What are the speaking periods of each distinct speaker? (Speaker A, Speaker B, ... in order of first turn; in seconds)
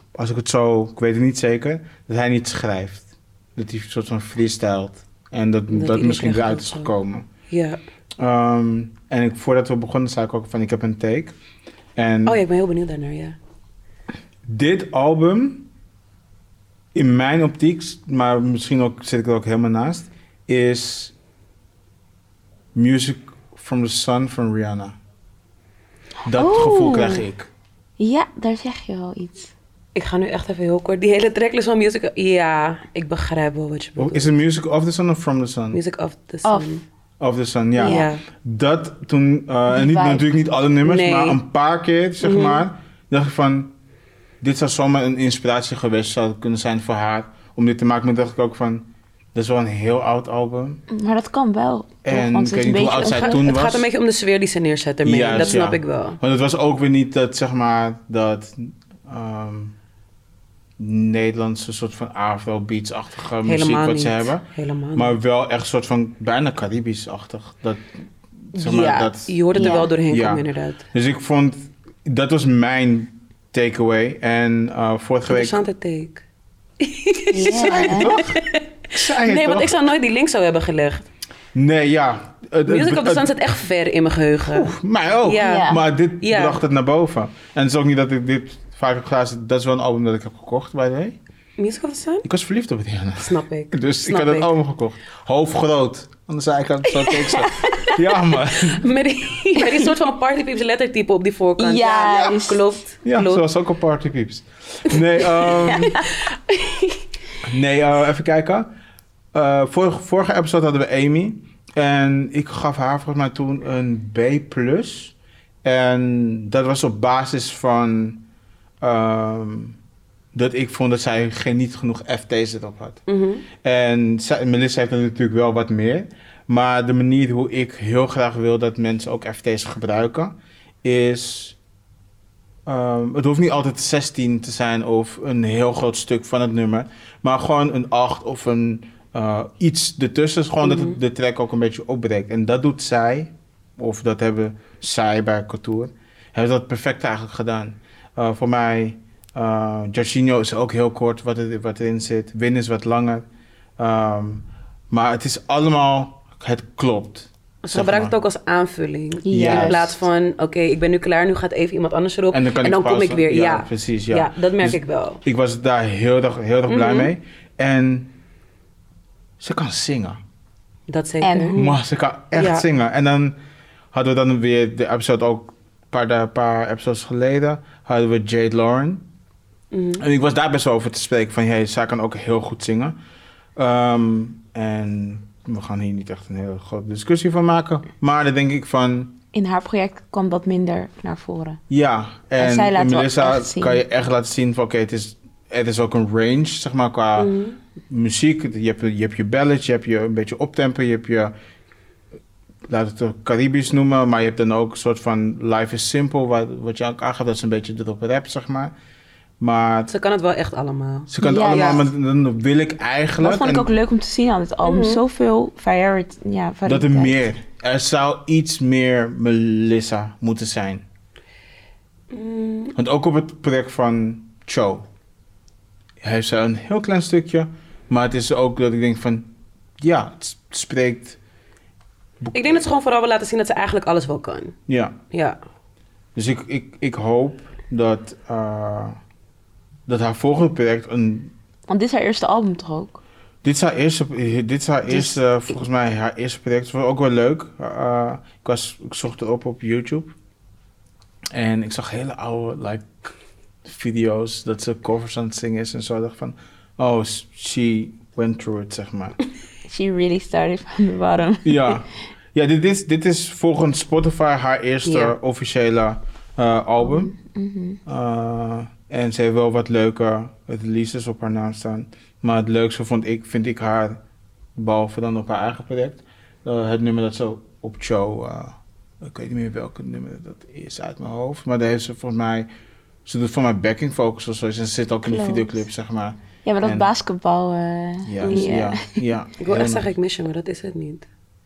Speaker A: 0.1-7.3, 8.2-11.3, 11.9-12.4, 14.4-15.7, 16.9-21.1, 22.7-25.0, 26.2-27.5, 34.0-35.8, 37.2-43.7, 44.4-50.8, 52.0-53.9, 55.0-59.7, 60.8-67.9, 68.5-75.6, 77.5-78.4, 78.9-79.8, 81.5-83.3, 84.5-91.2, 92.2-98.9, 103.0-106.0, 107.4-108.7, 109.3-118.2, 118.8-119.8, 120.3-123.0, 123.6-131.6, 132.7-153.2, 153.8-158.1, 159.3-159.9, 162.3-168.1, 169.4-170.2, 171.6-173.4, 173.9-179.0, 180.0-183.0, 183.6-189.2, 191.7-197.3, 197.9-201.3, 202.7-208.7, 209.4-209.9, 211.1-213.7, 216.7-220.8, 222.7-224.8, 226.0-229.3, 229.8-231.2, 232.2-232.7, 234.7-234.9, 236.1-239.0, 239.9-241.3, 243.4-250.1, 251.3-253.1, 253.6-259.1, 261.4-267.1, 267.9-274.0, 274.6-282.5, 283.0-286.9, 288.0-289.9
Speaker B: 5.7-6.9, 7.5-7.8, 12.2-13.4, 29.9-34.3, 35.7-36.8, 37.8-38.2, 40.8-41.4, 42.2-42.7, 52.8-56.2, 63.4-65.1, 68.5-70.8, 75.3-76.2, 76.8-81.1, 82.7-86.6, 91.6-92.3, 93.2-94.5, 98.6-103.4, 123.1-123.5, 140.6-140.9, 157.6-165.2, 166.7-167.1, 170.9-171.7, 172.3-172.7, 179.7-180.0, 197.2-197.6, 209.9-211.8, 214.6-215.0, 222.1-222.7, 232.3-234.6, 235.1-235.4, 264.9-265.1, 289.4-291.1
Speaker C: 26.3-27.2, 28.0-29.5, 36.4-36.8, 37.8-38.1, 39.7-40.3, 50.9-53.4, 69.5-69.9, 77.3-78.2, 85.4-85.8, 97.1-98.0, 99.5-99.9, 101.6-102.8, 105.6-106.1, 159.2-160.0, 171.2-171.7, 189.3-191.6, 192.4-193.8, 211.2-211.9, 213.2-217.2, 241.7-243.0, 244.9-245.2, 259.7-261.8, 267.0-267.8, 285.1-285.6, 286.4-289.0